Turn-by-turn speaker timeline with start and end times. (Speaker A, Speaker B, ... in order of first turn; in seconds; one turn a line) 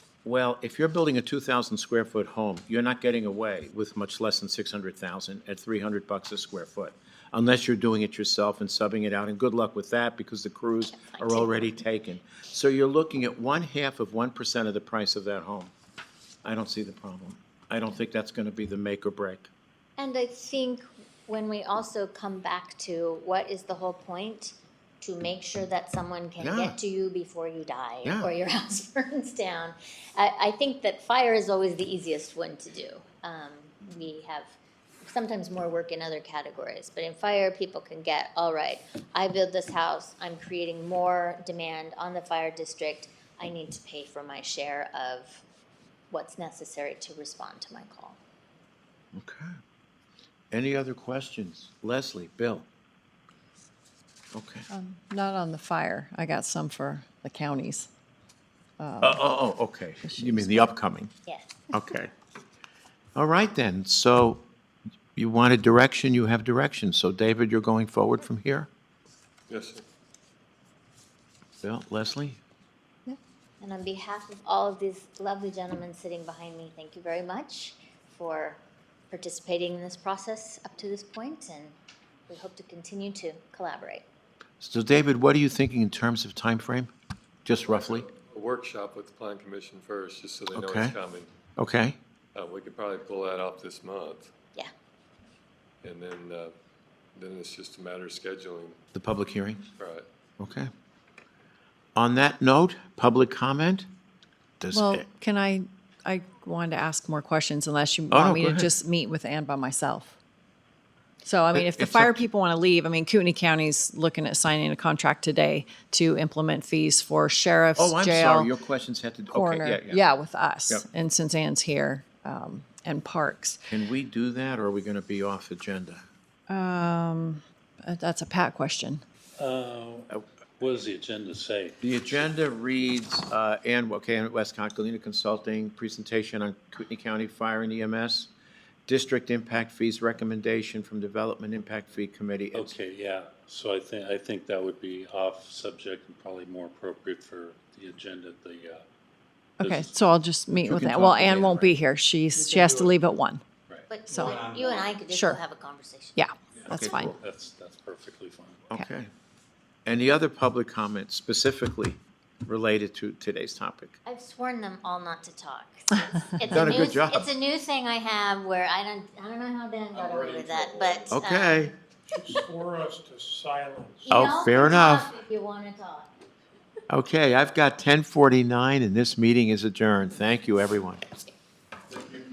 Speaker A: 0.2-15.7
Speaker B: 10.9-11.6
Speaker A: 16.4-19.5
Speaker B: 20.0-45.4
Speaker A: 26.4-26.8
Speaker A: 28.0-28.3
Speaker B: 46.1-48.2
Speaker A: 49.1-49.6
Speaker A: 50.5-52.7
Speaker A: 54.3-54.7
Speaker C: 54.7-57.9
Speaker C: 58.8-59.2
Speaker A: 59.0-61.1
Speaker C: 60.0-60.7
Speaker B: 61.3-61.5
Speaker A: 61.7-62.1
Speaker A: 63.2-64.5
Speaker A: 65.2-68.7
Speaker D: 69.5-69.8
Speaker A: 71.6-72.4
Speaker B: 73.6-81.8
Speaker B: 82.3-84.0
Speaker A: 84.6-86.9
Speaker A: 87.5-88.1
Speaker D: 87.6-91.3
Speaker A: 90.5-91.0
Speaker A: 91.6-92.0
Speaker D: 92.3-94.3
Speaker D: 95.8-96.5
Speaker D: 97.2-98.8
Speaker A: 99.0-99.6
Speaker D: 99.8-100.1
Speaker A: 100.4-100.7
Speaker A: 102.0-103.9
Speaker A: 104.6-105.1
Speaker C: 104.7-110.2
Speaker A: 108.1-108.7
Speaker C: 111.2-118.5
Speaker A: 111.5-112.2
Speaker A: 117.8-120.0
Speaker C: 119.3-123.6
Speaker A: 123.7-126.0
Speaker C: 126.5-129.0
Speaker E: 129.4-131.8
Speaker A: 131.8-138.3
Speaker A: 138.9-142.8
Speaker E: 142.5-148.8
Speaker E: 149.6-149.9
Speaker C: 149.6-153.4
Speaker A: 150.5-151.7
Speaker F: 152.6-152.9
Speaker B: 153.9-156.2
Speaker C: 155.1-155.4
Speaker C: 156.2-157.1
Speaker A: 156.7-157.1
Speaker E: 156.8-158.6
Speaker A: 158.7-159.1
Speaker A: 159.8-164.0
Speaker B: 164.1-171.7
Speaker A: 166.5-167.3
Speaker D: 169.9-171.2
Speaker A: 171.1-171.7
Speaker F: 172.1-174.3
Speaker B: 174.0-176.1
Speaker A: 174.1-175.1
Speaker A: 176.9-181.1